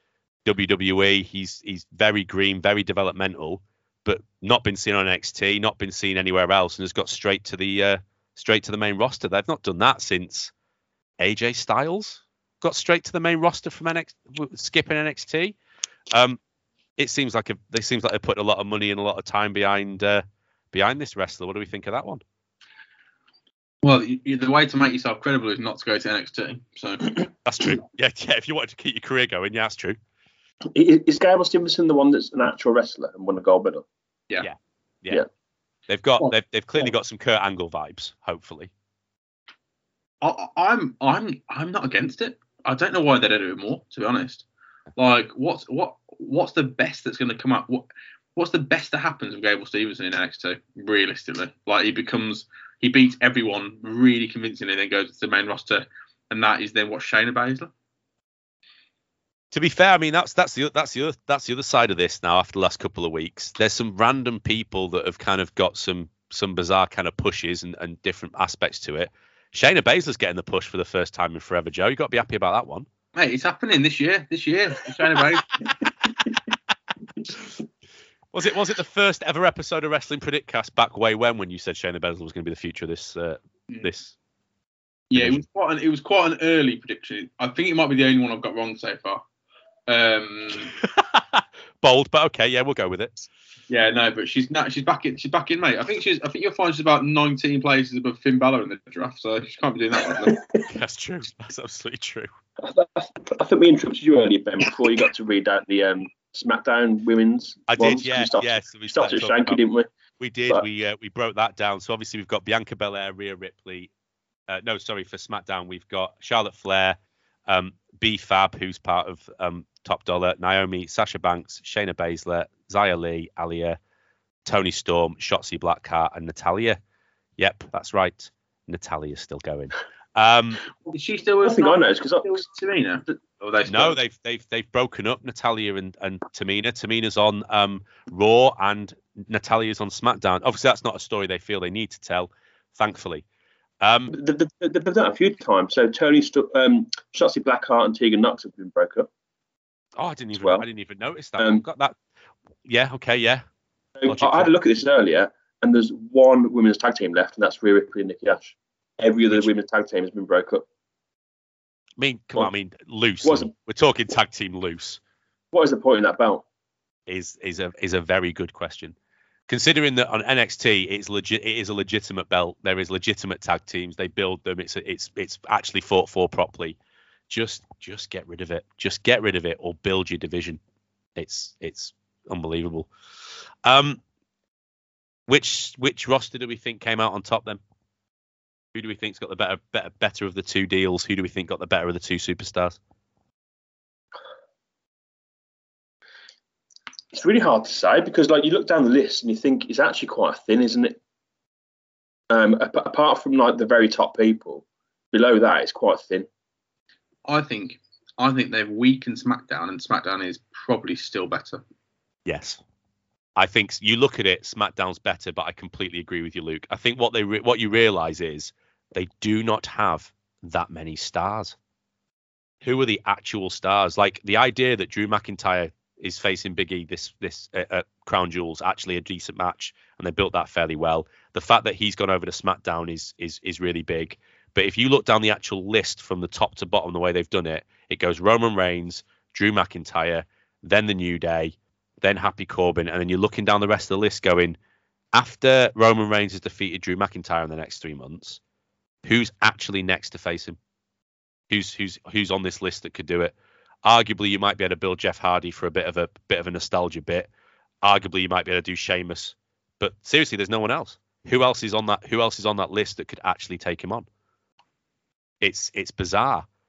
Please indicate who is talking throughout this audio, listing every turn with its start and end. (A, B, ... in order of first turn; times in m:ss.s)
0:00.4-0:10.5 A
0:11.2-0:15.6 A
0:16.1-0:16.4 A
0:17.0-0:22.2 A
0:23.8-0:27.3 B
0:27.4-0:30.0 A
0:30.7-0:33.8 C
0:34.4-0:35.2 A
0:35.9-0:38.7 A
0:40.2-0:44.4 B
0:45.0-0:57.7 B
0:59.5-1:12.9 A
1:13.1-1:15.6 B
1:18.3-1:24.1 A
1:25.1-1:29.2 B
1:25.1-1:25.4 A
1:29.9-1:30.7 B
1:30.8-1:33.3 A
1:33.7-1:40.4 B
1:40.2-1:40.6 C
1:40.7-1:42.3 A
1:42.6-1:49.9 C
1:47.7-1:49.6 A
1:50.2-1:53.9 A
1:54.5-1:57.0 A
1:57.5-2:03.8 A
2:04.4-2:06.8 A
2:07.4-2:10.6 A
2:10.9-2:14.0 B
2:11.4-2:12.4 C
2:13.6-2:23.2 A
2:23.8-2:24.1 A
2:24.1-2:29.1 C
2:30.0-2:32.0 A
2:30.3-2:30.6 C
2:31.4-2:31.6 C
2:32.6-2:33.4 A
2:34.0-2:40.6 C
2:34.0-2:34.5 A
2:42.0-2:45.0 A
2:43.2-2:43.5 C
2:45.5-2:46.4 C
2:47.1-2:48.9 A
2:49.5-2:56.8 A
2:57.3-3:00.6 A
3:01.2-3:02.9 A
3:03.6-3:04.0 A
3:05.3-3:07.6 A
3:08.7-3:12.8 A
3:17.1-3:21.0 C
3:22.3-3:26.3 C
3:27.2-3:31.6 B
3:32.2-3:32.6 A
3:33.4-3:41.5 A
3:42.6-4:04.6 A
4:05.1-4:08.4 A
4:09.0-4:10.6 A
4:11.5-4:17.3 A
4:17.8-4:24.0 A
4:25.4-4:26.4 A